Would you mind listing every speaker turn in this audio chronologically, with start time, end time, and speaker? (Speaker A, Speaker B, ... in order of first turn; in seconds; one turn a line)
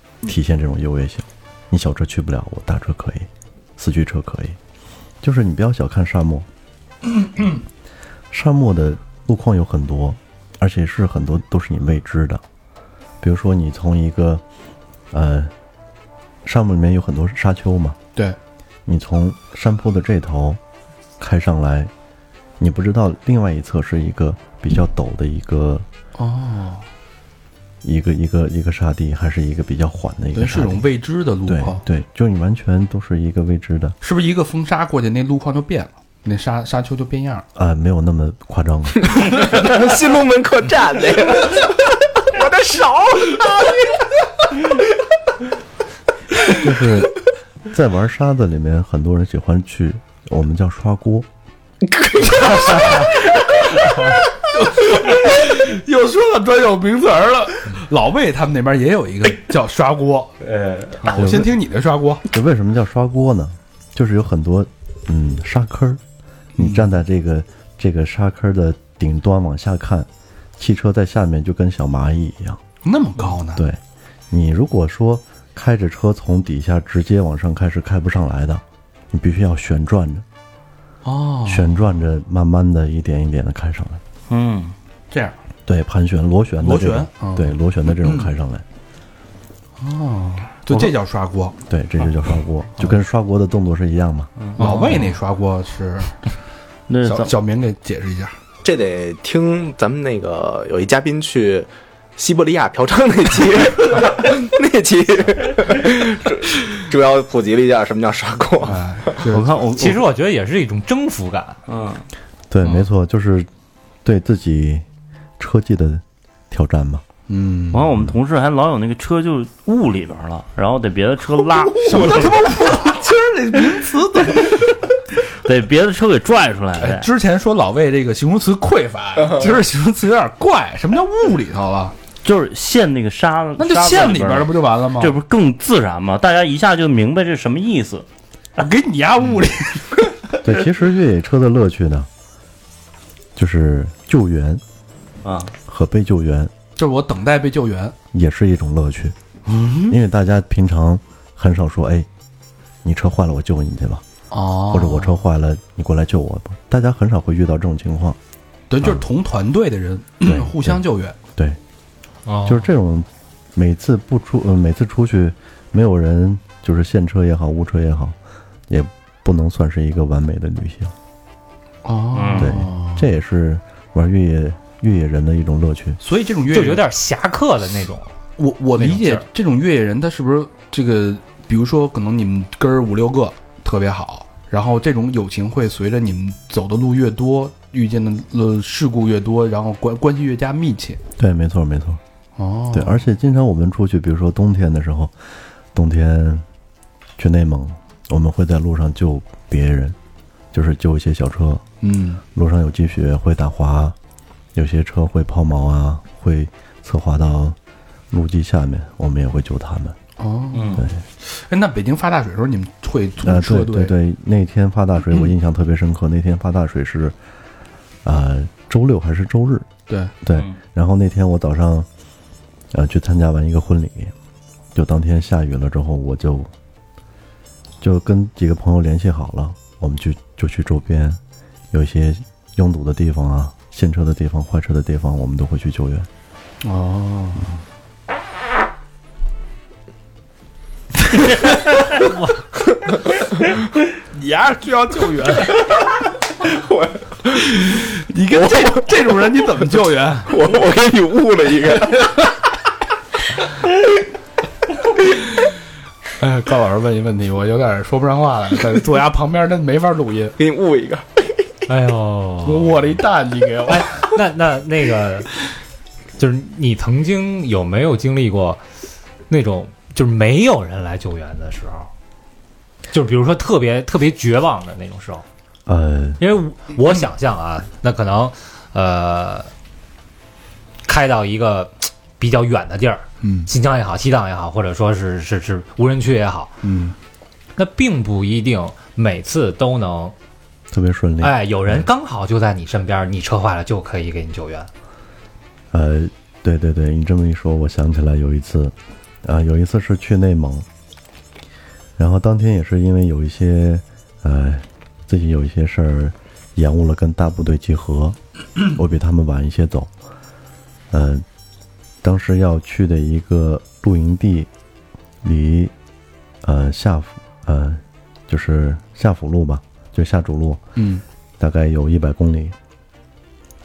Speaker A: 0.2-4.6
Speaker A: 5.2-6.5
Speaker A: 8.3-12.4
Speaker A: 13.2-14.4
Speaker A: 15.1-15.5
Speaker A: 16.4-18.0
Speaker A: 18.9-20.6
Speaker A: 21.2-21.9
Speaker A: 22.6-25.9
Speaker B: 26.1-26.9
Speaker A: 27.8-30.9
Speaker B: 30.3-31.8
Speaker A: 31.4-34.0
Speaker B: 34.0-37.5
Speaker A: 37.5-39.1
Speaker C: 39.1-43.8
Speaker A: 46.5-47.2
Speaker A: 47.7-51.3
Speaker C: 51.9-53.1
Speaker B: 54.5-60.3
Speaker D: 60.6-60.9
Speaker B: 61.0-62.2
Speaker A: 61.0-61.5
Speaker A: 62.3-66.0
Speaker A: 66.5-72.6
Speaker B: 66.6-66.9
Speaker B: 72.8-73.6
Speaker A: 73.5-80.2
Speaker B: 81.0-81.8
Speaker A: 81.5-84.0
Speaker D: 84.3-84.7
Speaker B: 85.1-85.4
Speaker A: 85.7-88.6
Speaker B: 86.6-88.3
Speaker B: 89.8-91.6
Speaker A: 91.7-94.3
Speaker D: 94.4-95.1
Speaker B: 94.6-96.2
Speaker D: 96.9-97.3
Speaker B: 97.0-98.3
Speaker C: 98.6-109.2
Speaker B: 108.6-109.6
Speaker D: 109.3-110.0
Speaker E: 109.8-111.6
Speaker D: 111.7-112.0
Speaker A: 112.5-113.5
Speaker A: 114.0-114.8
Speaker A: 115.4-117.0
Speaker B: 117.3-117.9
Speaker D: 117.7-122.4
Speaker B: 121.8-124.8
Speaker D: 125.4-127.1
Speaker B: 126.8-131.9
Speaker D: 132.2-138.1
Speaker B: 133.6-135.2
Speaker B: 138.6-140.1
Speaker A: 140.4-142.1
Speaker A: 143.3-144.6
Speaker D: 145.2-145.5
Speaker A: 145.7-146.5
Speaker B: 146.8-147.9
Speaker A: 148.1-149.2
Speaker B: 149.5-150.0
Speaker A: 149.9-152.1
Speaker A: 152.8-154.0
Speaker B: 154.3-155.2
Speaker A: 154.7-158.2
Speaker B: 158.7-161.2
Speaker A: 160.2-160.8
Speaker E: 162.2-162.7
Speaker A: 162.4-168.2
Speaker A: 168.7-170.9
Speaker B: 171.8-173.1
Speaker D: 172.1-172.5
Speaker A: 172.3-176.0
Speaker B: 176.0-176.8
Speaker E: 176.5-178.1
Speaker B: 178.4-191.0
Speaker E: 178.7-179.2
Speaker A: 191.2-192.0
Speaker B: 192.3-193.0
Speaker A: 192.7-196.4
Speaker A: 197.2-200.0
Speaker A: 200.5-201.6
Speaker B: 201.8-202.2
Speaker A: 202.3-203.9
Speaker A: 204.5-207.6
Speaker A: 208.1-210.0
Speaker B: 210.2-213.9
Speaker D: 210.5-210.8
Speaker A: 210.7-211.0
Speaker A: 213.2-217.2
Speaker A: 218.0-221.9
Speaker B: 219.9-220.1
Speaker A: 222.7-224.1
Speaker A: 224.7-226.5
Speaker A: 227.8-231.2
Speaker A: 231.7-236.1
Speaker B: 236.6-237.6
Speaker B: 244.1-245.6
Speaker C: 246.6-247.2
Speaker B: 247.6-250.3
Speaker C: 248.3-248.8
Speaker C: 250.3-252.1
Speaker B: 256.2-260.4
Speaker C: 260.4-261.2
Speaker E: 261.7-263.0
Speaker B: 262.4-264.1
Speaker E: 263.7-265.3
Speaker E: 266.2-268.6
Speaker E: 269.3-271.9
Speaker E: 272.9-275.2
Speaker A: 275.6-276.2
Speaker E: 276.2-279.5
Speaker E: 280.9-286.6
Speaker B: 283.2-283.5
Speaker B: 286.6-286.9
Speaker E: 287.6-290.1
Speaker A: 290.7-291.9
Speaker E: 291.2-294.7
Speaker A: 295.7-300.6
Speaker A: 302.0-309.9
Speaker A: 310.9-311.2
Speaker A: 312.0-314.5
Speaker A: 315.2-315.7
Speaker A: 316.4-320.6
Speaker B: 320.8-321.0
Speaker A: 321.4-322.5